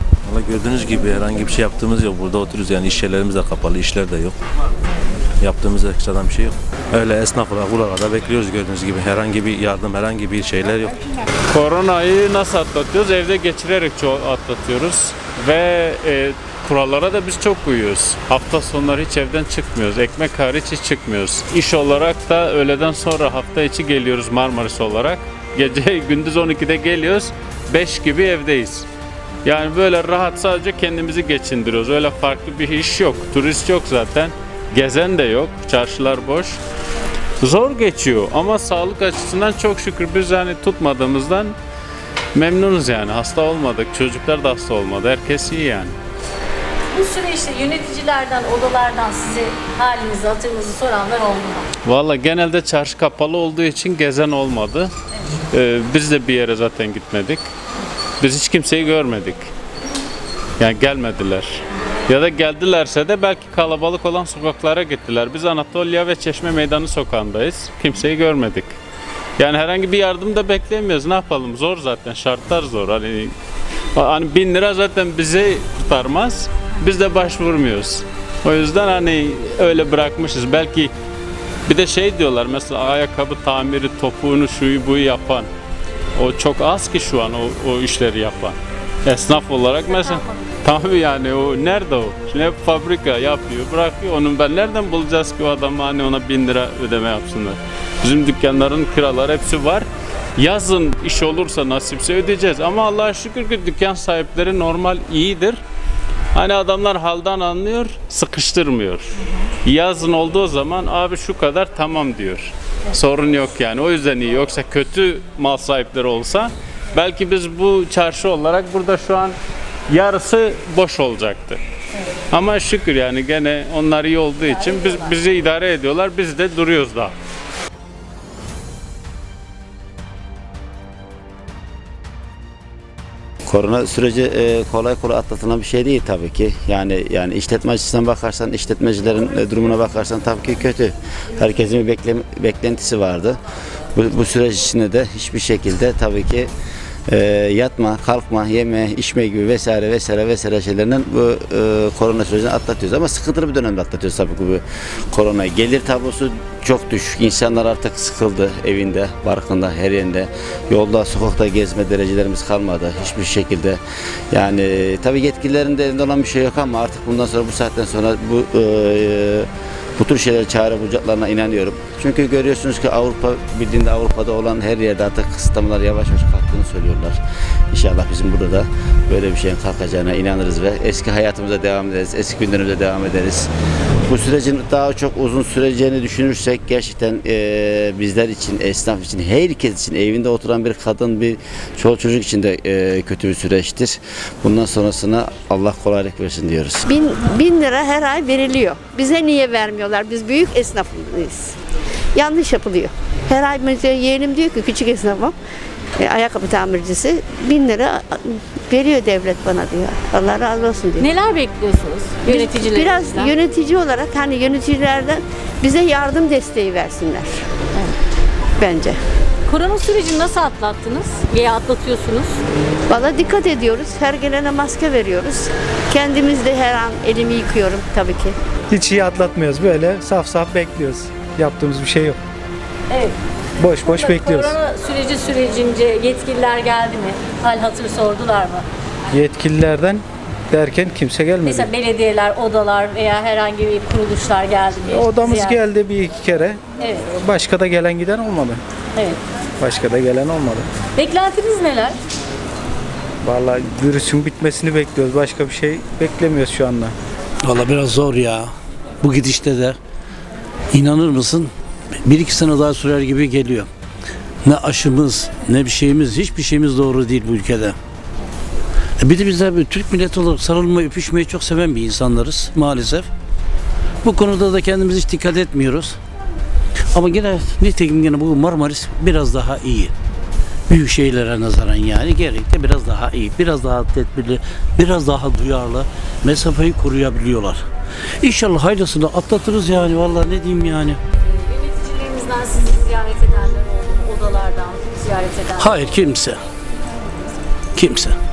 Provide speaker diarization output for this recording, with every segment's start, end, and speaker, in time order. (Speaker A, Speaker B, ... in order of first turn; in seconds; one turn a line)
Speaker A: 0.2-4.3
Speaker A: 5.4-10.9
Speaker B: 11.5-28.9
Speaker B: 29.4-36.6
Speaker B: 37.4-41.5
Speaker B: 42.3-46.0
Speaker C: 46.9-51.7
Speaker B: 51.8-54.9
Speaker B: 55.5-57.5
Speaker B: 58.2-59.5
Speaker B: 60.6-68.7
Speaker B: 69.4-73.3
Speaker B: 74.0-80.9
Speaker B: 81.7-85.5
Speaker B: 86.2-105.6
Speaker C: 89.7-90.7
Speaker B: 106.3-119.4
Speaker B: 119.9-121.6
Speaker B: 122.3-127.1
Speaker C: 124.5-125.1
Speaker D: 133.5-143.4
Speaker D: 143.9-146.5
Speaker D: 147.1-163.8
Speaker D: 164.3-177.2
Speaker D: 177.7-183.5
Speaker D: 184.1-196.8
Speaker E: 196.9-201.6
Speaker E: 202.2-205.3
Speaker E: 206.0-211.1
Speaker C: 211.0-213.3
Speaker E: 212.2-217.4
Speaker E: 218.6-219.0
Speaker C: 219.5-222.4
Speaker E: 222.9-228.3
Speaker F: 228.7-232.2
Speaker C: 232.9-233.2
Speaker F: 233.6-234.6
Speaker C: 233.8-238.7
Speaker F: 239.1-241.7
Speaker C: 241.4-245.6
Speaker F: 244.9-248.6
Speaker C: 246.8-247.1
Speaker F: 249.6-250.7
Speaker C: 250.9-251.9
Speaker F: 253.2-256.9
Speaker G: 257.4-259.8
Speaker G: 260.7-261.5
Speaker G: 262.0-263.7
Speaker G: 264.4-267.8
Speaker G: 269.0-273.1
Speaker G: 274.0-276.0
Speaker G: 276.9-279.9
Speaker G: 280.7-287.6
Speaker G: 288.2-291.0
Speaker C: 291.2-295.8
Speaker G: 295.6-296.4
Speaker G: 297.8-298.2